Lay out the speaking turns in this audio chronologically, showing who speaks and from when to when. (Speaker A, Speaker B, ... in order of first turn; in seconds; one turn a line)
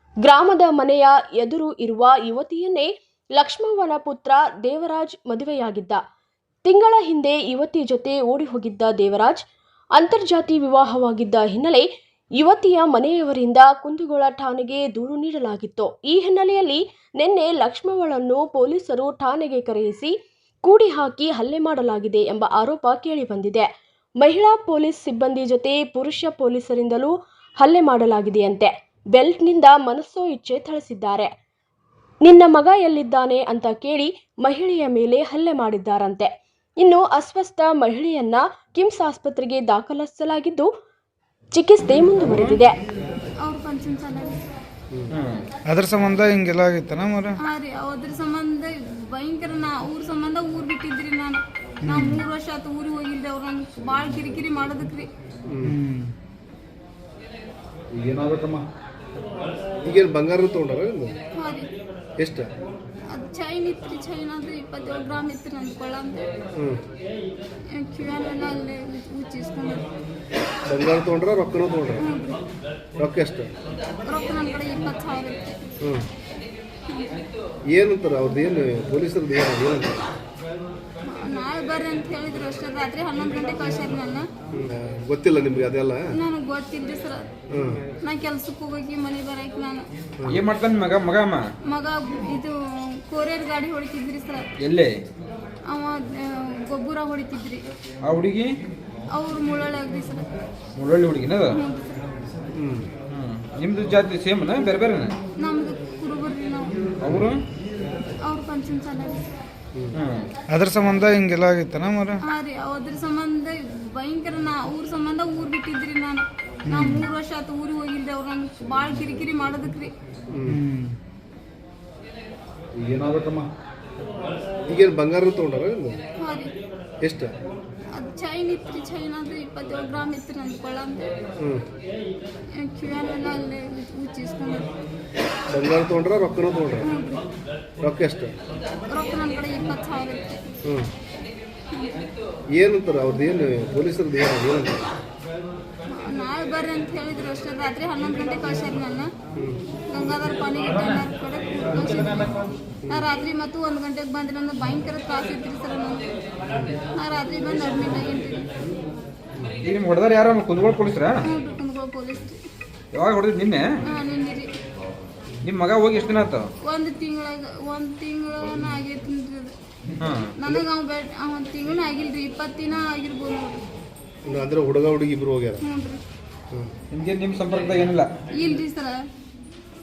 Speaker A: 0.2-6.0
Speaker A: 6.6-9.4
Speaker A: 10.0-11.9
Speaker A: 12.4-20.1
Speaker A: 20.6-23.7
Speaker A: 24.2-31.3
Speaker A: 32.2-40.7
Speaker A: 41.5-42.8
Speaker B: 42.2-42.6
Speaker C: 43.4-44.4
Speaker B: 45.1-45.4
Speaker D: 45.7-47.4
Speaker C: 47.4-55.1
Speaker D: 51.8-52.2
Speaker E: 55.5-55.7
Speaker D: 55.6-56.1
Speaker B: 57.9-58.6
Speaker E: 59.8-61.1
Speaker C: 61.3-61.7
Speaker E: 62.2-62.5
Speaker C: 63.1-66.3
Speaker E: 66.6-66.8
Speaker C: 67.7-70.0
Speaker E: 70.7-72.0
Speaker C: 72.0-72.4
Speaker E: 73.0-73.5
Speaker C: 74.1-75.6
Speaker E: 75.8-76.1
Speaker C: 76.9-77.1
Speaker E: 77.7-80.0
Speaker C: 81.0-84.3
Speaker E: 84.5-86.1
Speaker C: 86.1-87.3
Speaker E: 87.5-87.8
Speaker C: 88.0-89.9
Speaker B: 90.3-91.4
Speaker C: 91.6-94.5
Speaker B: 94.6-94.9
Speaker C: 95.7-97.7
Speaker B: 98.1-98.5
Speaker C: 99.1-100.3
Speaker B: 100.8-101.5
Speaker C: 101.5-102.0
Speaker E: 102.5-102.9
Speaker B: 103.1-105.1
Speaker C: 105.4-106.7
Speaker B: 107.0-107.4
Speaker C: 108.2-109.3
Speaker B: 109.9-110.3
Speaker D: 110.5-112.2
Speaker C: 112.3-119.9
Speaker D: 116.7-117.0
Speaker E: 120.3-120.6
Speaker D: 120.5-120.9
Speaker B: 122.8-123.5
Speaker E: 124.7-126.0
Speaker C: 126.2-126.5
Speaker E: 127.0-127.3
Speaker C: 127.9-131.1
Speaker E: 131.4-131.7
Speaker C: 132.5-134.7
Speaker E: 135.5-136.9
Speaker C: 136.8-137.2
Speaker E: 137.8-138.3
Speaker C: 138.9-140.4
Speaker E: 140.7-140.9
Speaker C: 141.7-142.0
Speaker E: 142.5-144.8
Speaker C: 145.9-149.1
Speaker C: 149.9-156.0
Speaker C: 156.9-158.5
Speaker B: 159.6-161.2
Speaker C: 161.2-162.4
Speaker B: 162.9-163.7
Speaker C: 163.9-164.5
Speaker B: 165.4-166.5
Speaker C: 166.6-169.6
Speaker B: 170.0-170.3
Speaker C: 170.2-173.7
Speaker E: 174.2-175.6
Speaker C: 175.6-176.0
Speaker B: 176.9-178.1
Speaker C: 178.3-179.0